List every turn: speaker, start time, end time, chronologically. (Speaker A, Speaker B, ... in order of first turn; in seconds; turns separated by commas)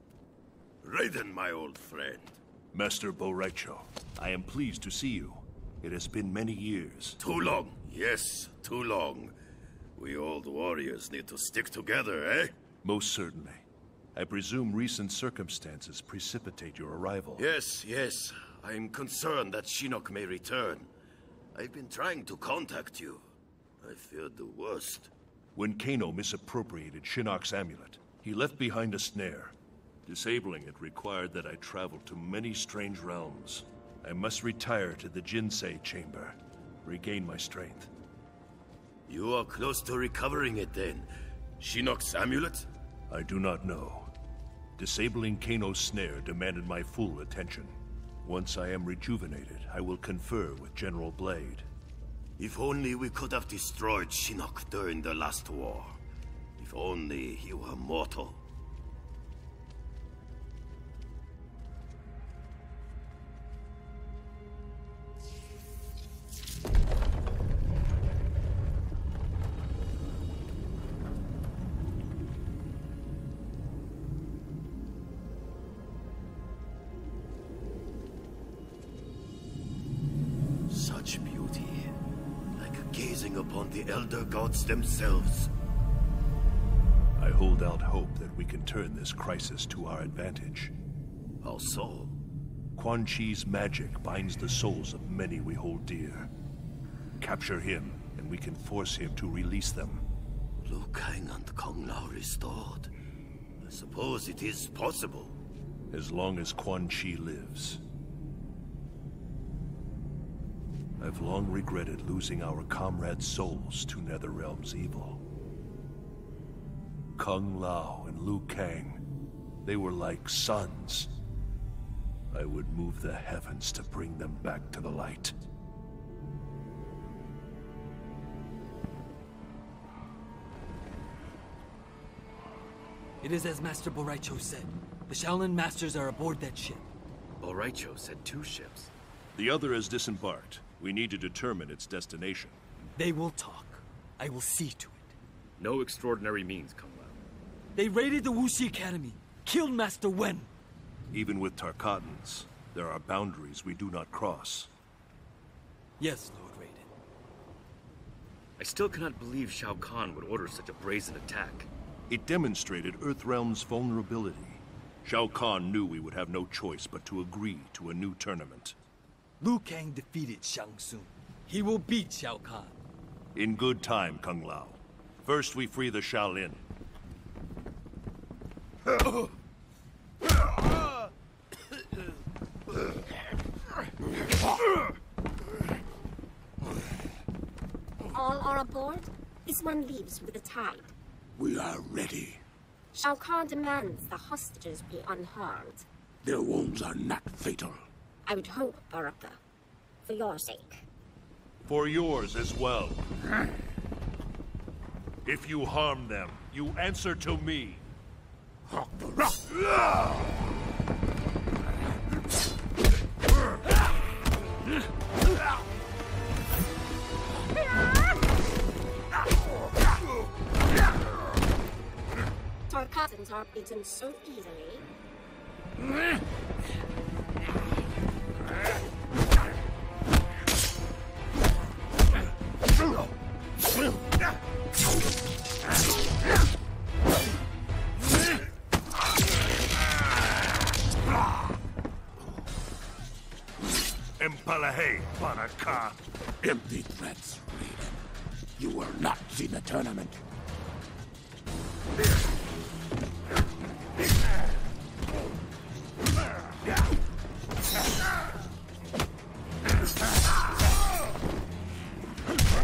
Speaker A: 0.8-2.4, Speaker B: 2.7-7.2, Speaker A: 7.2-9.3, Speaker A: 10.0-12.5, Speaker B: 12.8-13.6, Speaker B: 14.1-17.5, Speaker A: 17.4-20.9, Speaker A: 21.5-23.2, Speaker A: 23.8-25.1, Speaker B: 25.5-29.5, Speaker B: 30.1-37.9, Speaker A: 39.1-42.7, Speaker B: 43.1-44.1, Speaker B: 44.8-51.7, Speaker A: 52.4-56.0, Speaker A: 56.6-58.4, Speaker A: 80.7-81.9, Speaker A: 82.6-85.5, Speaker B: 87.2-90.7, Speaker A: 91.4-92.2, Speaker B: 92.8-96.3, Speaker B: 97.2-100.0, Speaker A: 100.7-102.9, Speaker A: 103.6-105.4, Speaker B: 105.9-107.8, Speaker B: 111.0-115.2, Speaker B: 117.2-119.0, Speaker B: 119.6-121.1, Speaker B: 122.3-125.3, Speaker C: 133.2-136.8, Speaker A: 137.4-138.7, Speaker D: 137.6-138.9, Speaker B: 139.3-142.6, Speaker C: 143.0-145.1, Speaker D: 145.6-147.1, Speaker C: 147.7-150.5, Speaker B: 151.1-154.7, Speaker C: 156.0-156.8, Speaker D: 158.6-161.7, Speaker B: 162.1-168.8, Speaker C: 169.4-172.7, Speaker B: 173.3-176.6, Speaker E: 188.1-190.9, Speaker F: 191.3-192.4, Speaker E: 192.9-195.8, Speaker F: 196.2-197.8, Speaker E: 198.2-199.4, Speaker E: 200.1-200.8, Speaker B: 201.6-203.0, Speaker B: 205.2-207.8, Speaker E: 222.7-224.8, Speaker B: 244.2-246.0, Speaker F: 246.4-248.0, Speaker F: 248.6-250.2